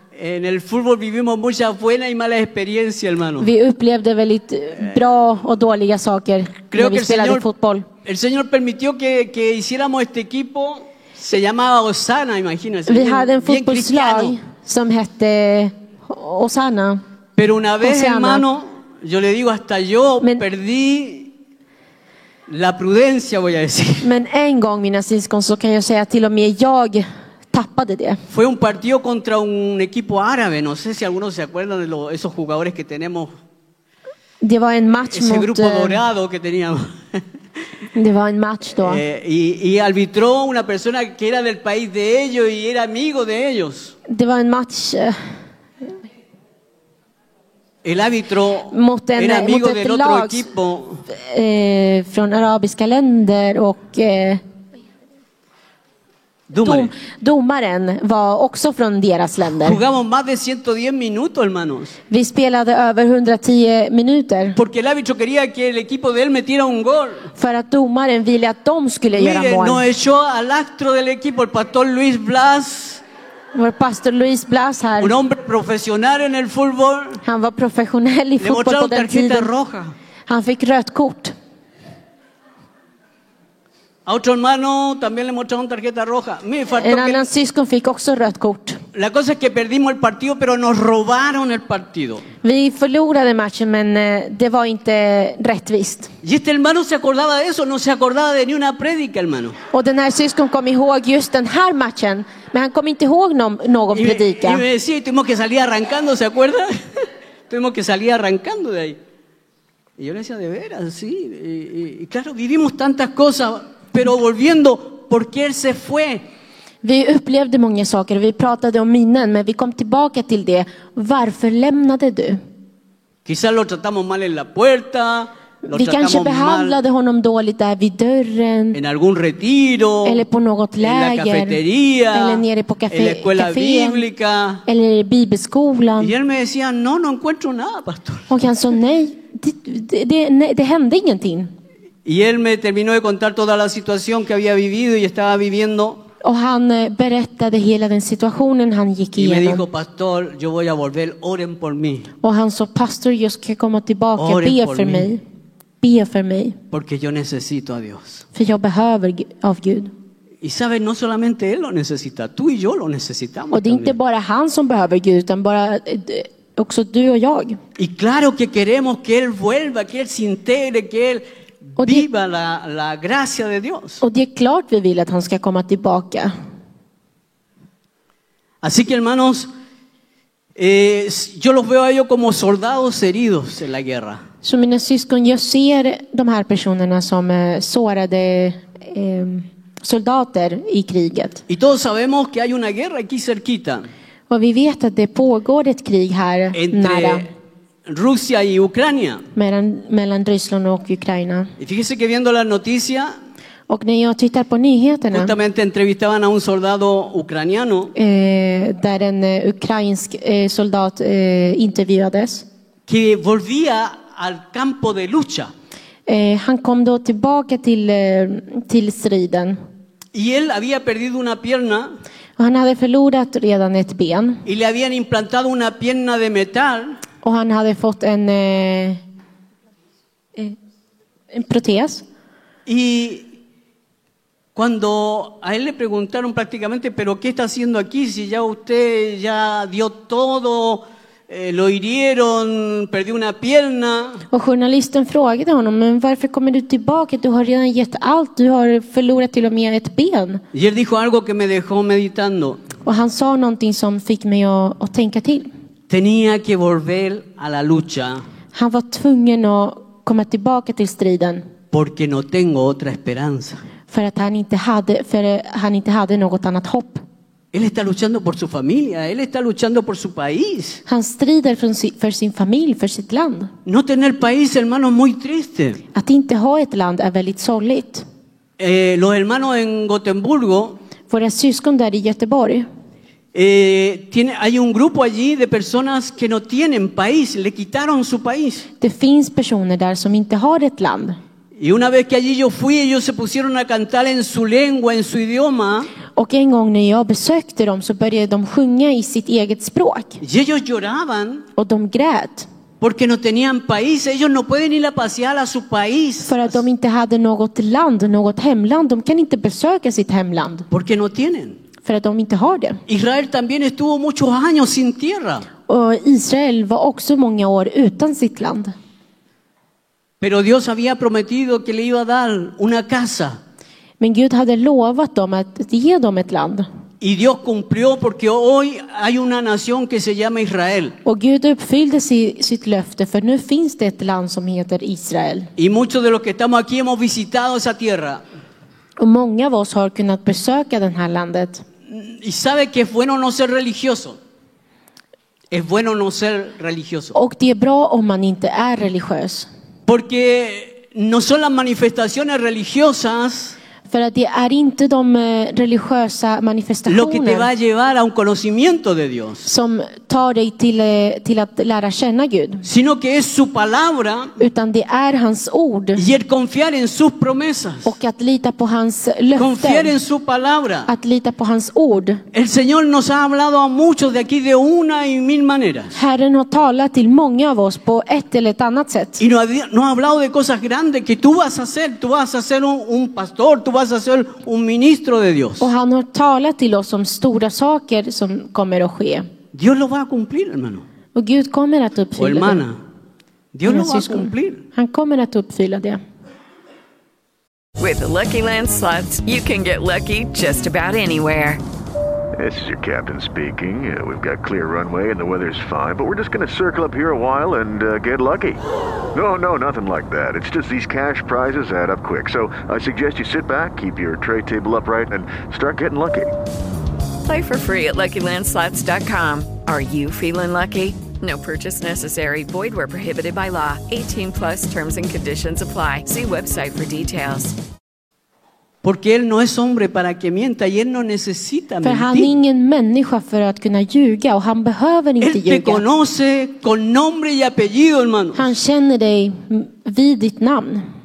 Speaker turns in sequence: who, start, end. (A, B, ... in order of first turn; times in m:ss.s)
0:00.1-0:03.5 A
0:03.4-0:07.9 B
0:06.7-0:07.5 A
0:08.0-0:14.4 A
0:12.9-0:17.0 B
0:17.4-0:21.3 A
0:17.8-0:18.4 B
0:22.5-0:24.1 A
0:24.0-0:28.2 B
0:28.3-0:33.3 A
0:34.4-0:36.0 B
0:35.1-0:37.2 A
0:37.9-0:39.0 B
0:38.8-0:43.9 A
0:44.1-0:45.2 B
0:47.8-0:51.0 A
0:48.7-0:50.5 B
0:51.1-0:54.4 B
0:56.5-0:56.9 A
0:56.6-0:59.8 B
0:59.4-1:02.0 A
1:02.1-1:04.6 B
1:04.6-1:07.3 A
1:07.4-1:09.8 B
1:09.1-1:13.0 A
1:13.6-1:15.2 B
1:15.0-1:17.2 A
1:17.2-1:19.5 B
1:18.4-1:20.0 A
1:20.3-1:21.3 B
1:24.1-1:27.2 A
1:26.8-1:28.8 B
1:28.9-1:32.2 A
1:32.4-1:36.1 B
1:36.2-1:39.6 A
1:39.7-1:44.6 B
1:43.9-1:49.0 A
1:50.0-1:56.3 A
1:56.8-2:02.4 B
2:03.2-2:06.8 A
2:05.7-2:08.8 B
2:08.7-2:10.2 A
2:10.0-2:11.6 B
2:10.8-2:14.6 A
2:12.1-2:14.1 B
2:14.7-2:16.1 B
2:16.0-2:18.3 A
2:18.3-2:21.5 B
2:22.0-2:26.0 A
2:26.2-2:29.6 B
2:29.2-2:32.1 A
2:32.2-2:35.2 B
2:34.2-2:35.1 A
2:35.8-2:36.6 B
2:36.7-2:38.2 A
2:38.3-2:39.9 B
2:40.4-2:44.0 A
2:43.5-2:47.6 B
2:47.8-2:51.2 A
2:51.8-2:54.0 A
2:51.8-2:52.1 B
2:54.0-2:56.3 B
2:58.6-2:59.5 A
3:00.6-3:04.2 A
3:04.4-3:11.4 B
3:11.5-3:13.9 A
3:14.3-3:17.3 B
3:16.5-3:17.3 A
3:17.9-3:19.2 A
3:19.4-3:21.5 B
3:21.6-3:23.1 A
3:23.7-3:25.4 B
3:25.1-3:27.9 A
3:28.0-3:32.5 B
3:32.9-3:35.5 A
3:36.1-3:39.6 B
3:40.1-3:42.0 A
3:42.4-3:44.4 B
3:44.5-3:47.0 A
3:47.2-3:49.0 B
3:51.3-3:52.0 B
3:52.7-3:53.3 A
3:54.6-4:04.2 A
4:04.3-4:10.4 B
4:10.5-4:12.6 A
4:12.8-4:15.5 B
4:15.9-4:18.2 A
4:18.5-4:21.4 B
4:21.7-4:23.6 A
4:23.9-4:27.0 B
4:27.5-4:30.8 A
4:30.9-4:33.5 B
4:33.7-4:35.8 A
4:35.9-4:38.0 B
4:38.6-4:40.8 A
4:41.1-4:42.7 B
4:43.3-4:48.7 A
4:48.8-4:51.2 B
4:51.6-4:55.9 A
4:56.2-5:00.2 B
5:00.2-5:01.5 A
5:01.6-5:02.5 B
5:02.8-5:06.6 A
5:06.3-5:10.7 B
5:10.7-5:11.6 A
5:11.8-5:12.8 B
5:12.9-5:15.5 A
5:15.7-5:18.7 B
5:20.2-5:23.4 A
5:24.0-5:26.7 B
5:27.0-5:31.0 A
5:31.0-5:35.5 B
5:35.6-5:38.2 A
5:39.0-5:41.6 B
5:41.9-5:44.2 A
5:45.5-5:47.2 A
5:47.1-5:49.5 B
5:49.9-5:53.6 A
5:53.9-5:57.5 B
5:56.9-5:59.5 A
5:59.4-6:02.6 B
6:02.6-6:04.4 A
6:04.4-6:06.0 B
6:06.0-6:07.9 A
6:07.8-6:09.9 B
6:09.4-6:10.9 A
6:10.9-6:12.2 B
6:12.3-6:16.0 A
6:16.0-6:19.2 B
6:19.2-6:25.7 A
6:25.6-6:29.3 B
6:29.5-6:30.8 A
6:31.2-6:32.6 B
6:32.2-6:32.8 A
6:33.5-6:34.6 A
6:33.7-6:36.0 B
6:37.8-6:41.6 C
6:42.4-6:48.6 D
6:49.1-6:56.3 D
6:57.2-7:07.6 C
7:08.8-7:12.3 A
7:11.8-7:15.8 B
7:15.2-7:18.5 A
7:18.4-7:20.8 B